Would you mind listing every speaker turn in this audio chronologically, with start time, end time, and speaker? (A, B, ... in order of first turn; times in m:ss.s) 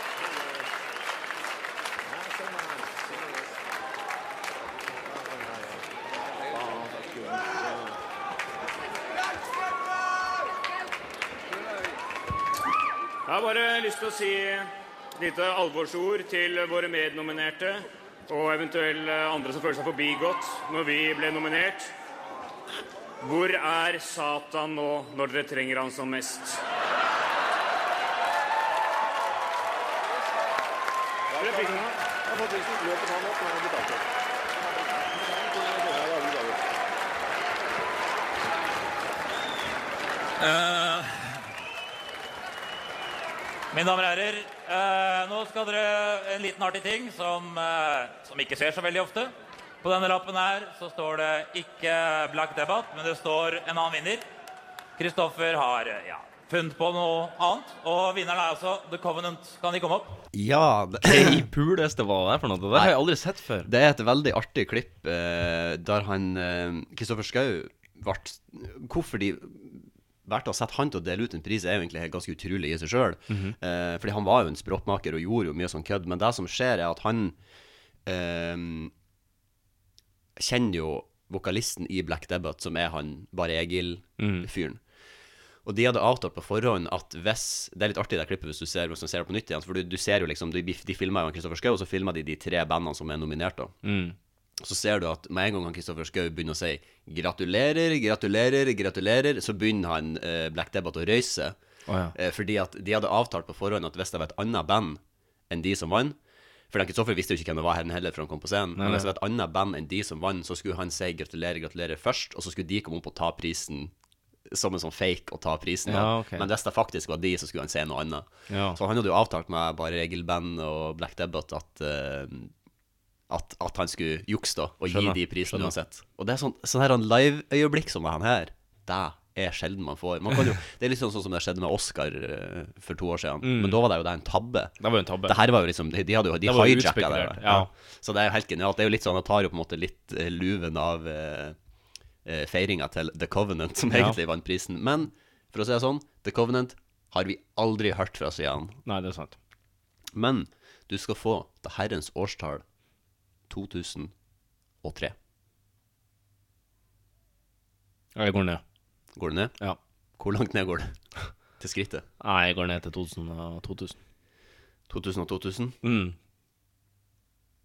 0:13.2-0:21.9 A
0:23.2-0:26.6 A
0:31.3-0:34.0 B
0:31.4-0:31.9 A
0:35.1-0:36.6 B
0:40.4-0:41.4 C
0:43.7-0:54.2 C
0:55.0-1:00.2 C
1:00.3-1:01.4 D
1:01.0-1:03.7 E
1:03.6-1:17.4 D
1:13.3-1:13.6 E
1:18.0-1:18.9 D
1:20.4-1:24.8 D
1:24.2-1:24.5 E
1:25.6-1:33.7 D
1:33.8-1:34.2 E
1:34.6-1:41.6 D
1:41.9-1:42.1 E
1:42.1-1:46.2 D
1:46.7-1:53.9 D
1:48.8-1:49.1 E
1:54.5-2:02.5 D
1:55.9-1:56.5 E
1:58.5-1:58.8 E
2:03.3-2:14.7 D
2:04.9-2:05.7 E
2:13.4-2:13.8 E
2:14.8-2:15.4 E
2:15.2-2:21.6 D
2:16.4-2:17.7 E
2:22.2-2:28.8 D
2:23.9-2:24.2 E
2:28.8-2:29.4 E
2:30.1-2:32.6 D
2:33.5-2:34.1 D
2:34.8-2:35.1 D
2:38.2-2:38.6 E
2:39.1-2:39.5 D
2:40.2-2:41.0 D
2:41.6-2:42.0 D
2:42.2-2:44.0 E
2:44.9-2:45.8 D
2:45.8-2:46.2 E